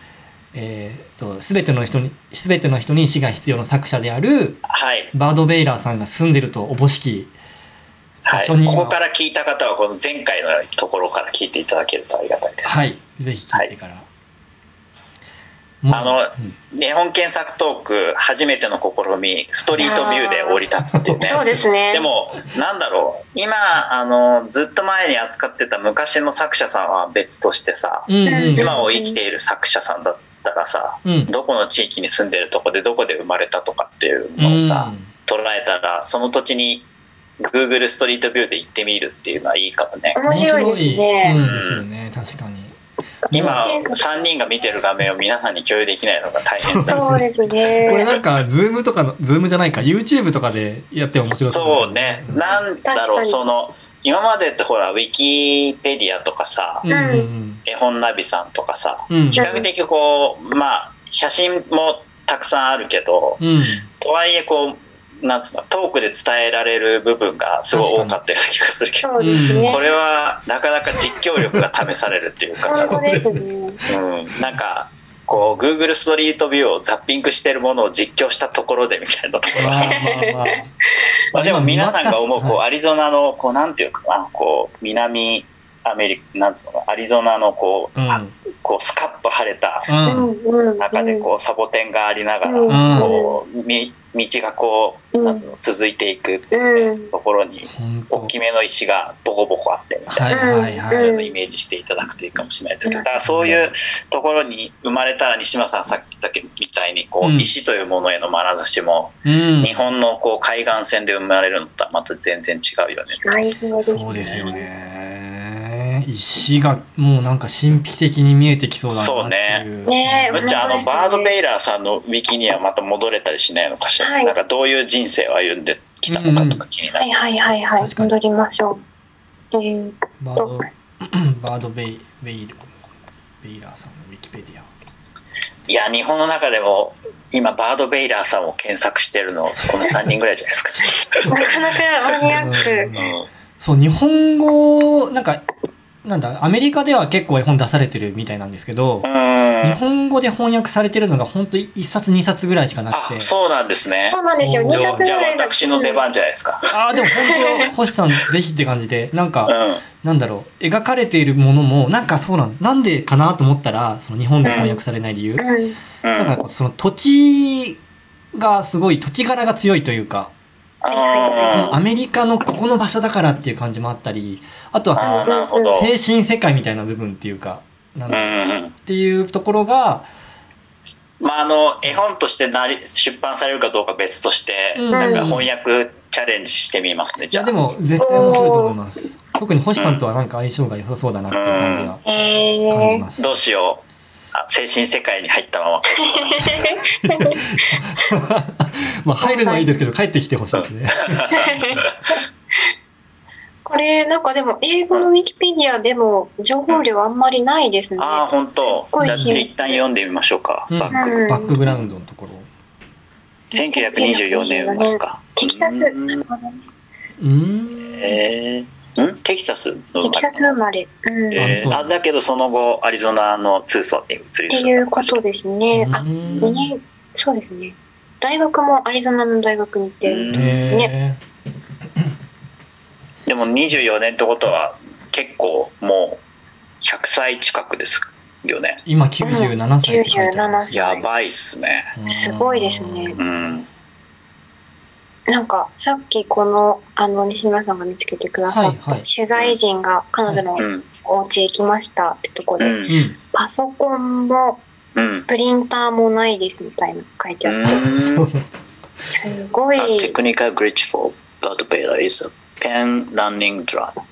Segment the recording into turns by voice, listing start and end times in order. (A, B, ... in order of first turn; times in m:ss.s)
0:00.5-0:07.3 A
0:04.7-0:05.1 B
0:08.3-0:12.9 B
0:08.3-0:09.0 A
0:12.6-0:14.1 A
0:15.8-0:16.5 A
0:15.9-0:36.9 B
0:19.8-0:20.6 C
0:20.9-0:21.6 A
0:21.2-0:22.1 C
0:28.1-0:28.8 A
0:28.3-0:29.2 C
0:31.0-0:31.3 A
0:34.4-0:35.1 A
0:37.4-0:40.2 B
0:40.2-0:41.4 C
0:40.3-0:42.7 A
0:41.3-0:41.8 B
0:43.3-0:44.7 C
0:43.3-0:43.7 A
0:43.3-0:47.3 B
0:46.6-0:52.7 A
0:46.9-0:48.1 C
0:51.1-0:56.9 B
0:52.8-0:53.4 C
0:56.8-0:57.6 A
0:56.9-0:57.3 C
0:57.7-1:03.4 B
0:59.1-0:59.5 A
0:59.4-0:59.7 C
1:03.4-1:03.9 A
1:04.0-1:13.0 B
1:07.7-1:08.2 A
1:09.0-1:09.9 C
1:09.2-1:09.8 A
1:12.7-1:13.8 C
1:12.7-1:13.4 A
1:13.9-1:20.1 B
1:19.6-1:20.7 A
1:19.8-1:20.5 C
1:21.3-1:29.9 B
1:21.3-1:22.6 A
1:28.0-1:28.4 A
1:29.9-1:30.3 A
1:30.0-1:31.3 C
1:30.8-1:53.2 B
1:32.4-1:33.4 C
1:32.7-1:33.1 A
1:35.2-1:35.5 C
1:36.5-1:37.1 C
1:37.6-1:38.3 A
1:40.1-1:41.1 A
1:40.3-1:41.4 C
1:43.2-1:43.7 A
1:47.2-1:47.5 A
1:49.2-1:49.9 A
1:53.1-1:54.6 C
1:53.8-2:00.6 A
1:58.9-1:59.6 B
1:59.8-2:01.3 C
2:00.3-2:07.0 B
2:04.0-2:04.4 C
2:06.1-2:06.6 A
2:06.9-2:08.8 C
2:07.8-2:08.1 A
2:09.5-2:10.6 C
2:10.2-2:12.6 A
2:13.4-2:14.7 A
2:15.7-2:21.3 B
2:21.3-2:22.9 C
2:22.2-2:23.3 B
2:22.3-2:25.4 A
2:26.0-2:29.1 A
2:29.0-2:29.8 B
2:29.6-2:33.3 A
2:32.9-2:36.6 B
2:34.1-2:36.1 C
2:34.4-2:35.1 A
2:36.7-2:45.5 A
2:37.0-2:37.7 C
2:39.5-2:39.8 B
2:44.4-2:44.7 B
2:44.4-2:44.8 C
2:45.4-2:45.8 C
2:46.0-2:46.4 B
2:46.2-2:47.8 A
2:48.3-2:50.3 A
2:50.8-2:51.8 B
2:50.9-2:51.8 C
2:51.5-3:00.1 A
2:55.0-2:55.9 B
2:55.0-2:55.8 C
2:58.1-2:58.8 B
3:01.2-3:07.6 B
3:04.8-3:05.5 A
3:04.9-3:05.3 C
3:07.3-3:12.0 A
3:08.0-3:08.8 C
3:09.8-3:10.0 B
3:11.3-3:12.0 B
3:12.0-3:13.0 C
3:12.7-3:13.4 A
3:13.2-3:13.8 B
3:14.3-3:16.6 B
3:16.2-3:17.8 C
3:17.0-3:21.8 A
3:19.2-3:19.8 C
3:21.3-3:21.8 B
3:21.4-3:22.2 C
3:23.6-3:29.8 C
3:28.0-3:31.8 B
3:29.0-3:29.4 A
3:30.7-3:32.5 A
3:30.9-3:31.6 C
3:33.5-3:36.2 B
3:33.5-3:36.6 C
3:37.2-3:38.2 A
3:38.0-3:40.6 B
3:40.0-3:41.6 C
3:41.3-3:45.2 B
3:41.4-3:41.9 A
3:44.5-3:50.9 C
3:45.7-3:46.7 A
3:46.0-3:46.5 B
3:50.0-3:50.8 B
3:50.3-3:51.2 A
3:53.3-3:56.2 B
3:56.8-3:58.8 B
3:58.9-4:00.7 A
3:59.2-4:01.1 C
4:00.7-4:01.9 B
4:02.0-4:03.5 A
4:02.1-4:03.2 C
4:03.2-4:03.7 B
4:05.3-4:14.6 C
4:08.5-4:09.0 A
4:10.6-4:10.9 B
4:12.6-4:12.9 B
4:12.9-4:13.2 A
4:15.0-4:15.3 B
4:15.3-4:17.8 C
4:17.4-4:18.3 B
4:17.7-4:18.4 A
4:19.1-4:20.2 C
4:19.8-4:24.0 B